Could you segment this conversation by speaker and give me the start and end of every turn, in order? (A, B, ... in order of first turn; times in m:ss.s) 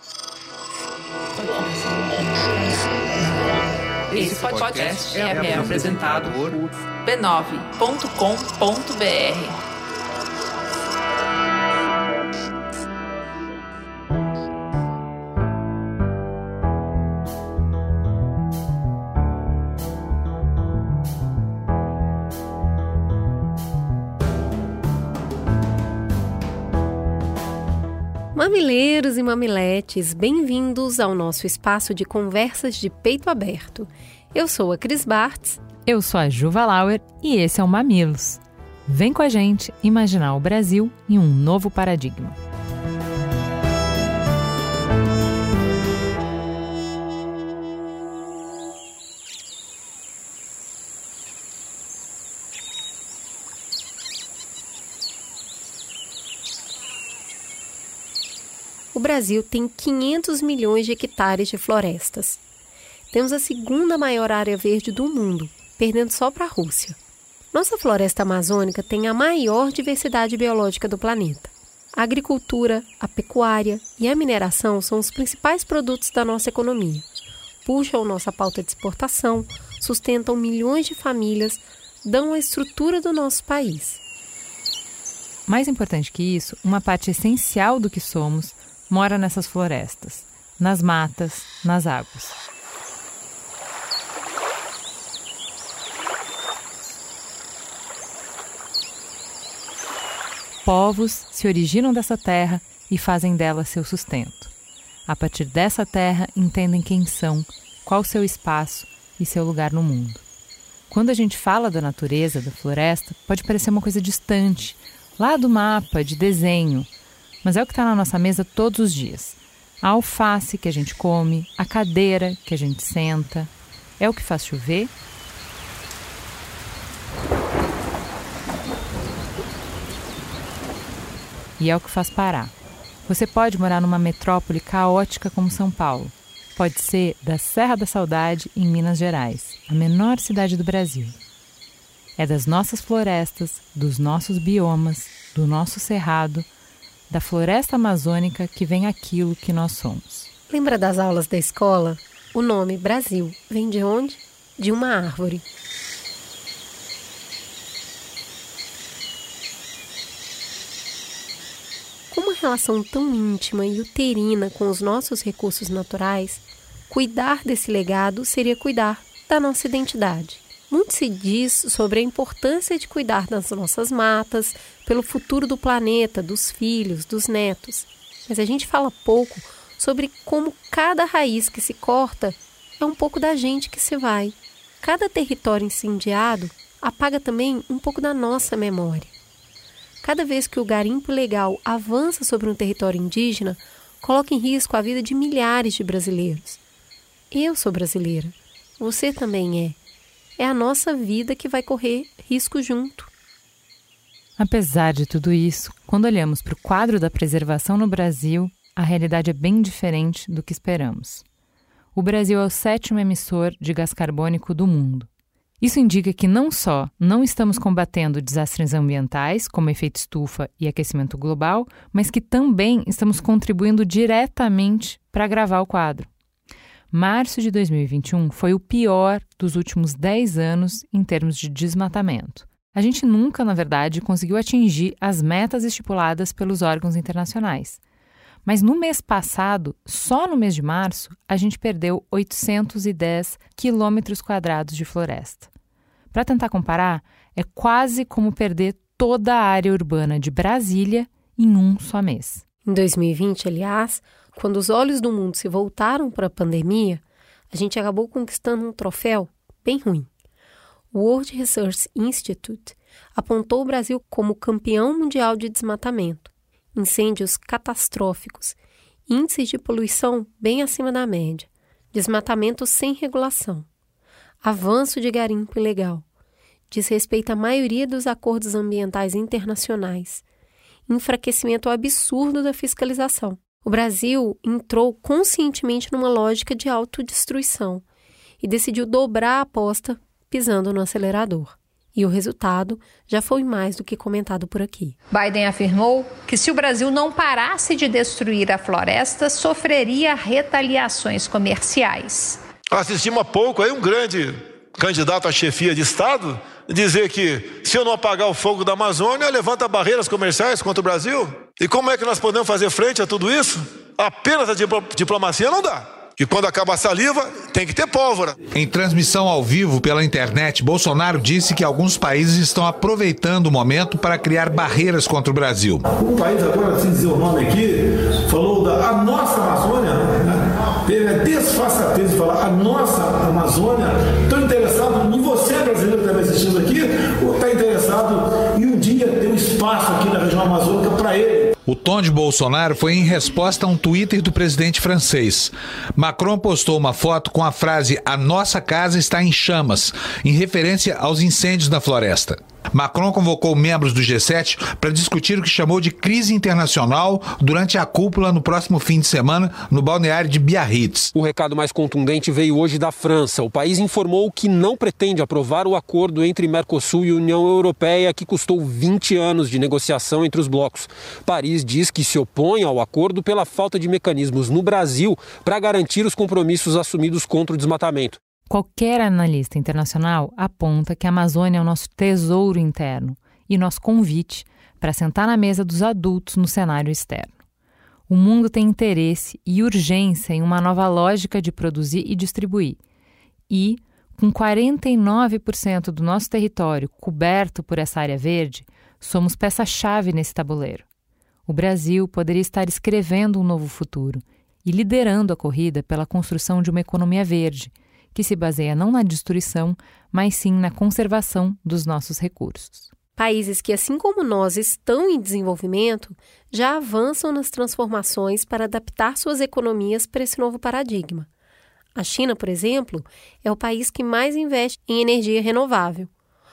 0:01.4-0:03.3 A
0:04.1-0:09.6 A
0:28.4-0:35.6 B
0:35.8-0:42.4 C
0:58.9-1:02.4 B
1:03.1-1:07.0 B
1:07.5-1:17.1 B
1:17.6-1:24.0 B
1:25.5-1:32.4 C
1:40.6-1:44.5 C
1:45.1-1:50.2 C
1:50.9-1:56.9 C
1:57.4-2:04.9 C
2:11.6-2:12.5 C
2:13.1-2:21.2 C
2:22.2-2:26.5 C
2:27.1-2:30.3 C
2:30.5-2:35.4 B
2:42.1-3:09.1 B
3:10.0-3:16.6 B
3:17.3-3:19.8 B
3:20.4-3:23.1 B
3:24.4-3:31.2 C
3:32.0-3:35.1 C
3:35.6-3:46.1 C
3:46.9-3:57.8 C
3:58.5-4:05.5 C
4:06.1-4:12.4 C
4:12.7-4:20.1 B
4:20.9-4:33.7 B
4:34.4-4:36.0 B
4:36.7-4:40.2 B
4:40.9-4:47.8 B
4:48.4-4:55.0 B
4:55.1-5:02.4 D
5:02.7-5:18.4 E
5:18.5-5:25.8 F
5:25.9-5:41.5 G
5:41.7-6:01.1 F
6:01.1-6:18.2 H
6:18.5-6:27.4 C
6:28.1-6:32.8 C
6:33.5-6:40.9 C
6:41.5-6:52.9 C
6:53.2-7:01.3 B
7:02.0-7:06.1 B